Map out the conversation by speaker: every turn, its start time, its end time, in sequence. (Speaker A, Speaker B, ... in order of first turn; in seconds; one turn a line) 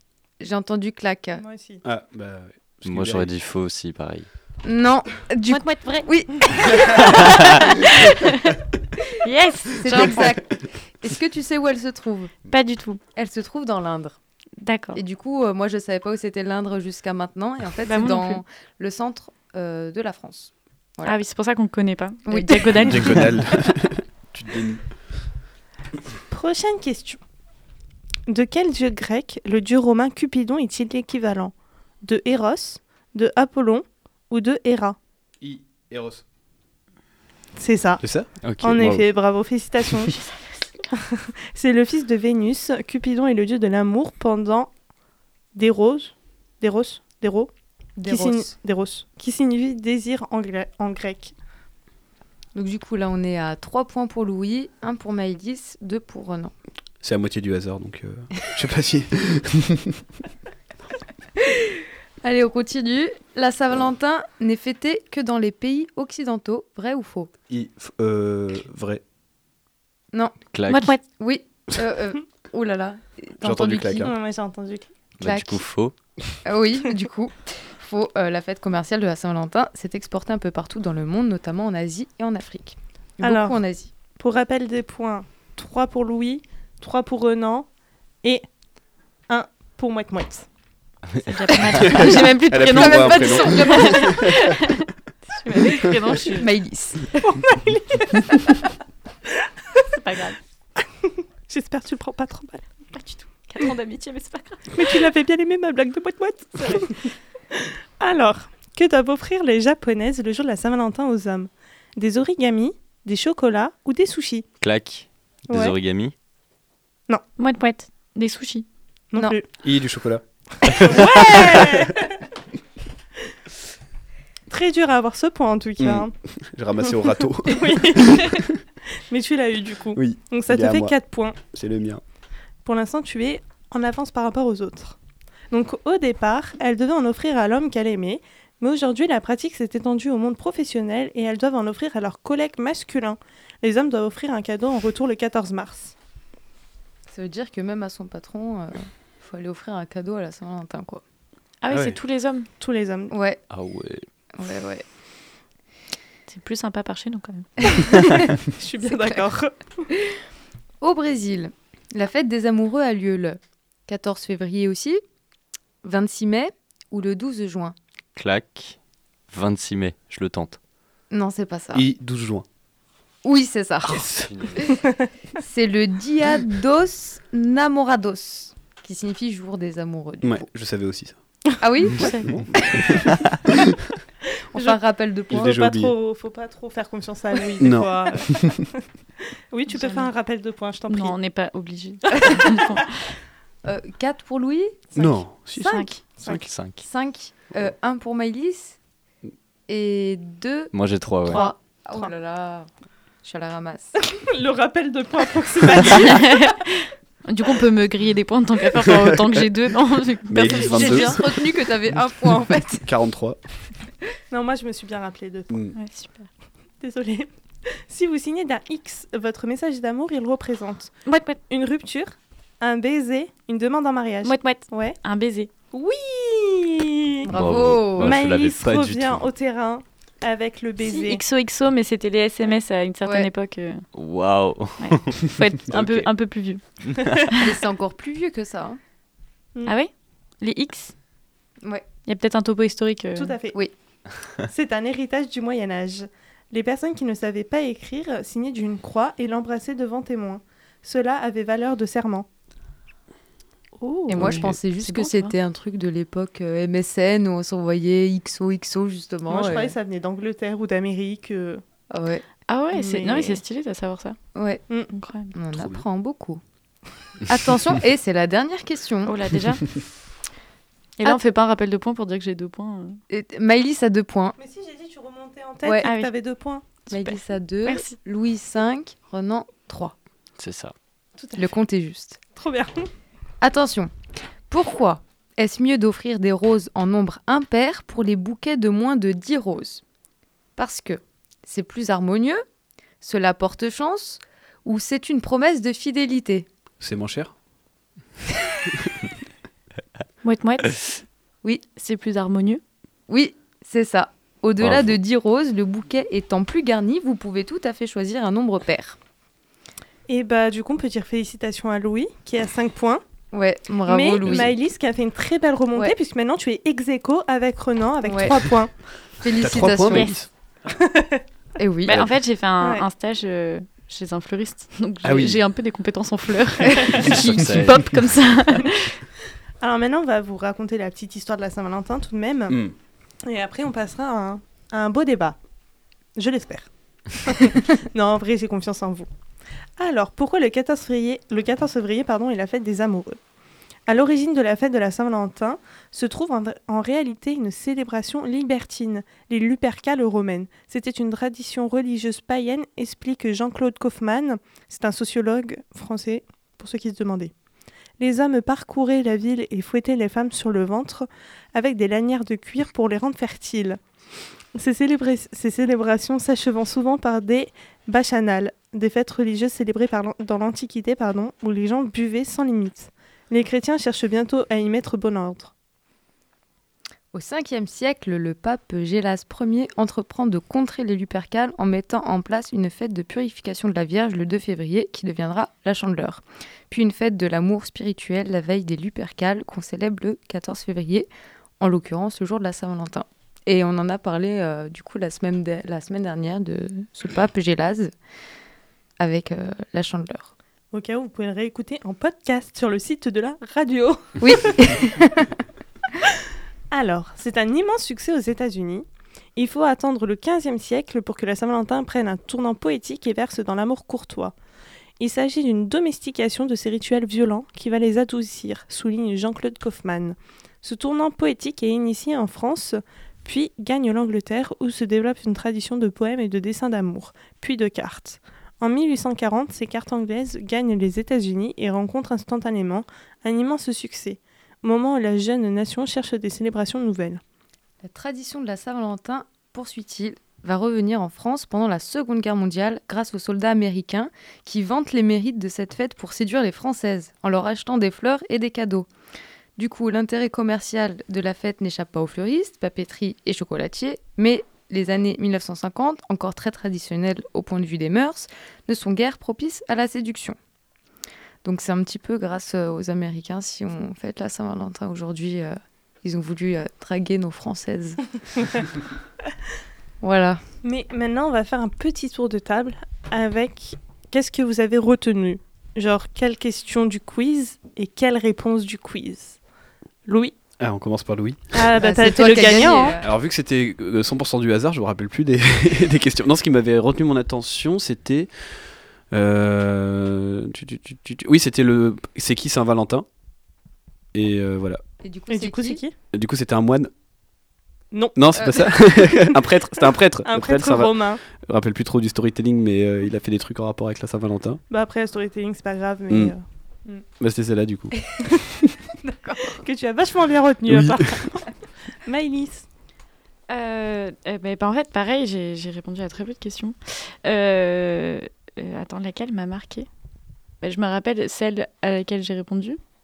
Speaker A: 0.4-1.4
Speaker B: 1.4-1.8
Speaker C: 1.8-3.3
Speaker D: 2.9-4.3
Speaker A: 4.6-8.0
Speaker E: 5.5-8.6
Speaker E: 9.2-10.3
Speaker A: 9.8-12.4
Speaker E: 12.5-13.0
Speaker A: 13.2-14.2
Speaker E: 14.6-15.0
Speaker A: 14.9-21.1
Speaker E: 17.9-18.4
Speaker E: 21.1-23.3
Speaker A: 22.3-23.2
Speaker C: 22.8-24.9
Speaker B: 26.3-27.2
Speaker B: 28.3-35.0
Speaker C: 35.4-36.2
Speaker B: 37.6-38.0
Speaker C: 38.0-39.1
Speaker D: 38.4-38.8
Speaker B: 38.6-40.2
Speaker B: 40.9-44.7
Speaker B: 45.5-47.5
Speaker A: 48.0-48.5
Speaker B: 48.0-51.3
Speaker A: 52.5-56.5
Speaker C: 57.0-60.0
Speaker A: 62.2-67.3
Speaker C: 67.5-69.0
Speaker D: 70.5-70.9
Speaker E: 70.7-71.0
Speaker A: 71.1-74.1
Speaker C: 73.4-74.1
Speaker B: 74.0-74.9
Speaker D: 75.2-75.9
Speaker A: 75.2-75.6
Speaker A: 76.4-83.9
Speaker B: 83.2-87.7
Speaker B: 89.3-90.5
Speaker E: 91.2-96.5
Speaker C: 91.8-94.5
Speaker A: 91.9-94.5
Speaker A: 96.3-97.2
Speaker B: 97.2-98.6
Speaker B: 99.3-99.8
Speaker E: 99.9-100.4
Speaker B: 101.0-102.7
Speaker E: 102.9-105.0
Speaker B: 104.7-114.5
Speaker D: 114.6-116.1
Speaker B: 115.5-115.8
Speaker E: 117.4-118.7
Speaker B: 119.1-119.5
Speaker C: 119.6-121.8
Speaker B: 120.6-122.2
Speaker B: 124.5-126.1
Speaker C: 125.8-128.4
Speaker B: 127.5-131.4
Speaker C: 130.0-132.0
Speaker B: 132.6-135.0
Speaker B: 135.5-145.9
Speaker A: 147.1-151.0
Speaker E: 151.6-152.5
Speaker C: 151.7-152.0
Speaker B: 152.6-153.1
Speaker A: 153.1-153.4
Speaker D: 153.5-154.1
Speaker A: 154.4-154.8
Speaker E: 156.3-157.8
Speaker B: 158.4-159.9
Speaker A: 158.9-159.2
Speaker A: 160.8-165.0
Speaker A: 165.8-167.8
Speaker D: 168.2-168.8
Speaker D: 169.3-170.6
Speaker A: 171.1-171.8
Speaker C: 171.7-172.4
Speaker A: 173.2-174.8
Speaker D: 174.0-174.7
Speaker A: 175.4-180.4
Speaker C: 180.2-181.2
Speaker A: 181.6-183.1
Speaker C: 182.0-183.6
Speaker E: 182.0-182.3
Speaker A: 184.6-185.6
Speaker C: 185.3-185.9
Speaker B: 185.3-188.8
Speaker C: 187.6-188.6
Speaker B: 189.5-191.2
Speaker E: 189.7-190.1
Speaker E: 190.9-193.0
Speaker A: 193.6-195.2
Speaker C: 195.0-195.8
Speaker B: 195.6-196.5
Speaker E: 195.6-196.0
Speaker D: 196.2-196.8
Speaker A: 196.8-198.8
Speaker A: 199.7-200.7
Speaker D: 200.7-201.4
Speaker A: 201.2-202.7
Speaker B: 201.3-202.1
Speaker A: 203.2-204.0
Speaker B: 204.1-206.5
Speaker E: 206.0-211.2
Speaker C: 208.9-209.4
Speaker C: 210.3-213.4
Speaker A: 210.4-212.9
Speaker B: 214.3-215.6
Speaker C: 215.5-215.8
Speaker E: 215.8-216.3
Speaker B: 216.8-225.0
Speaker E: 221.1-221.4
Speaker E: 224.2-225.5
Speaker B: 225.7-227.3
Speaker A: 227.3-228.2
Speaker D: 227.3-229.2
Speaker B: 228.0-231.2
Speaker E: 230.8-233.9
Speaker D: 233.9-236.1
Speaker E: 234.8-237.5
Speaker A: 237.4-238.8
Speaker E: 240.4-240.9
Speaker E: 242.1-243.4
Speaker B: 243.2-243.6
Speaker B: 244.5-252.3
Speaker B: 253.8-254.3
Speaker E: 254.1-255.3
Speaker A: 254.1-259.8
Speaker B: 259.3-261.6
Speaker A: 261.9-262.2
Speaker E: 262.5-264.2
Speaker B: 262.7-263.4
Speaker A: 264.3-264.6
Speaker E: 264.9-265.3
Speaker A: 265.3-266.4
Speaker C: 265.5-265.8
Speaker A: 267.3-269.1
Speaker E: 269.1-269.6
Speaker E: 271.0-273.0
Speaker A: 273.1-274.4
Speaker B: 274.4-276.8
Speaker A: 275.6-275.9
Speaker E: 275.8-276.1
Speaker A: 276.9-279.9
Speaker E: 276.9-278.0
Speaker D: 280.4-280.7
Speaker B: 281.2-281.5
Speaker A: 281.4-282.2
Speaker B: 282.3-282.9
Speaker A: 283.4-283.9
Speaker A: 284.5-289.8
Speaker A: 290.6-292.4
Speaker A: 293.0-296.5
Speaker C: 296.8-297.3
Speaker E: 300.2-300.8
Speaker E: 301.8-302.6
Speaker A: 303.1-309.0
Speaker D: 304.6-304.9
Speaker B: 310.1-313.0
Speaker A: 313.3-314.6
Speaker B: 313.9-318.8
Speaker A: 318.1-318.4
Speaker A: 319.2-320.1
Speaker C: 319.4-320.3
Speaker B: 320.8-321.2
Speaker A: 321.6-322.1
Speaker E: 321.9-329.0
Speaker C: 325.0-325.4
Speaker D: 327.0-328.0
Speaker B: 329.6-332.6
Speaker C: 332.5-332.7
Speaker B: 333.2-335.4
Speaker B: 336.1-339.1
Speaker B: 339.8-343.2
Speaker B: 343.9-357.3
Speaker B: 358.0-363.8
Speaker B: 364.6-375.5
Speaker A: 377.1-391.1
Speaker A: 391.6-397.9
Speaker A: 399.0-400.3
Speaker B: 400.7-404.8
Speaker A: 404.2-405.3
Speaker B: 406.7-414.3
Speaker B: 415.0-437.2
Speaker A: 437.8-448.9
Speaker A: 449.6-460.4
Speaker A: 461.4-468.2
Speaker A: 470.0-470.4
Speaker B: 470.6-479.4
Speaker B: 480.1-480.4
Speaker C: 480.6-481.7
Speaker B: 481.5-483.0
Speaker A: 481.8-483.1
Speaker C: 483.0-488.3
Speaker C: 489.1-493.1
Speaker C: 494.1-494.8
Speaker A: 495.0-495.8
Speaker B: 495.3-495.9
Speaker C: 496.1-496.9
Speaker B: 497.9-499.3
Speaker C: 498.1-504.6
Speaker B: 500.2-501.2
Speaker B: 504.7-506.4
Speaker C: 507.2-508.1
Speaker A: 509.0-509.6
Speaker B: 509.5-511.5
Speaker C: 510.7-511.2
Speaker B: 512.0-512.7
Speaker E: 513.5-519.9
Speaker E: 520.6-522.8